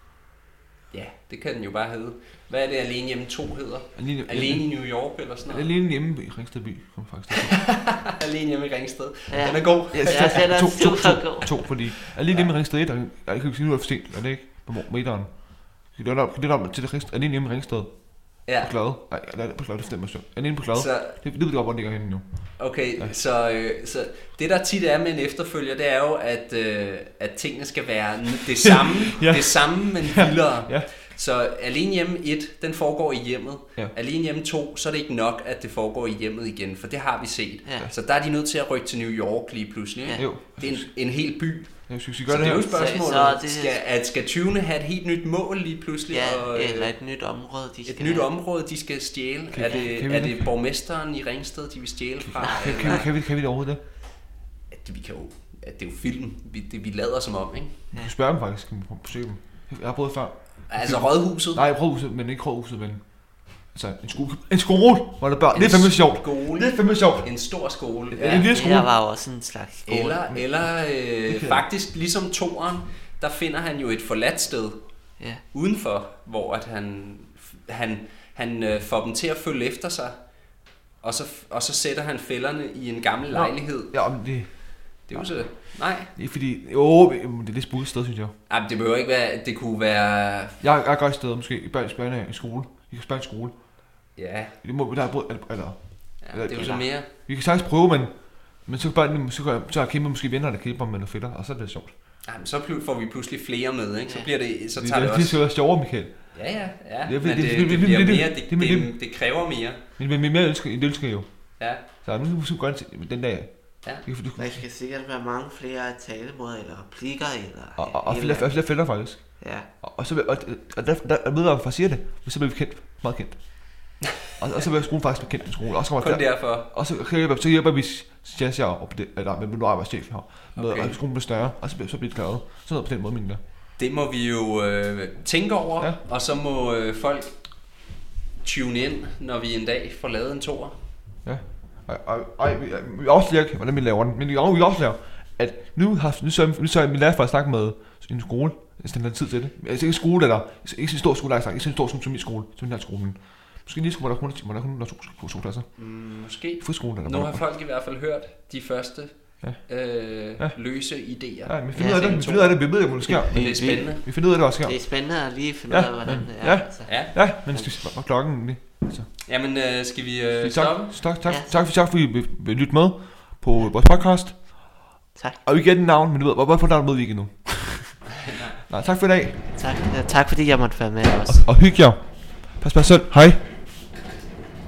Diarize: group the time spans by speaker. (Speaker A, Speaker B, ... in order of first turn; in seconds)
Speaker A: 0.9-5.7, 7.4-10.6, 12.3-12.5, 18.5-18.7, 20.7-21.2, 22.6-46.9, 47.9-53.1, 54.7-57.8, 60.7-61.6, 65.5-68.5, 69.9-74.8, 75.5-80.2, 81.0-83.9, 85.1-86.1, 88.5-90.6, 94.2-94.6, 96.2-97.1, 102.2-105.4, 106.3-109.8, 111.6-111.8, 125.8-126.7, 130.6-131.0, 133.8-137.4, 138.4-140.7, 155.8-162.2, 163.1-164.0, 166.9-167.2, 169.3-171.0
Speaker B: 4.0-7.6, 9.9-23.2, 29.1-30.9, 40.2-41.0, 41.9-42.7, 49.5-50.5, 52.2-53.8, 57.9-63.0, 63.7-67.3, 68.1-68.9, 71.3-71.6, 83.3-85.3, 86.1-88.3, 90.6-93.5, 94.6-98.1, 98.7-101.9, 104.8-106.3, 107.0-108.9, 110.0-111.3, 112.0-114.6, 117.8-119.2, 119.8-133.4, 141.2-155.7, 156.6-157.4, 161.4-164.8, 165.7-169.1, 170.3-174.8, 175.4-178.1, 178.7-179.4, 181.3-183.4
Speaker C: 9.3-11.7, 37.6-37.9, 42.6-43.8, 46.1-48.3, 52.4-53.0, 68.5-70.3, 96.5-96.9, 114.4-118.7, 119.4-119.7, 161.7-167.9, 171.3-171.6, 175.2-175.4, 179.5-181.5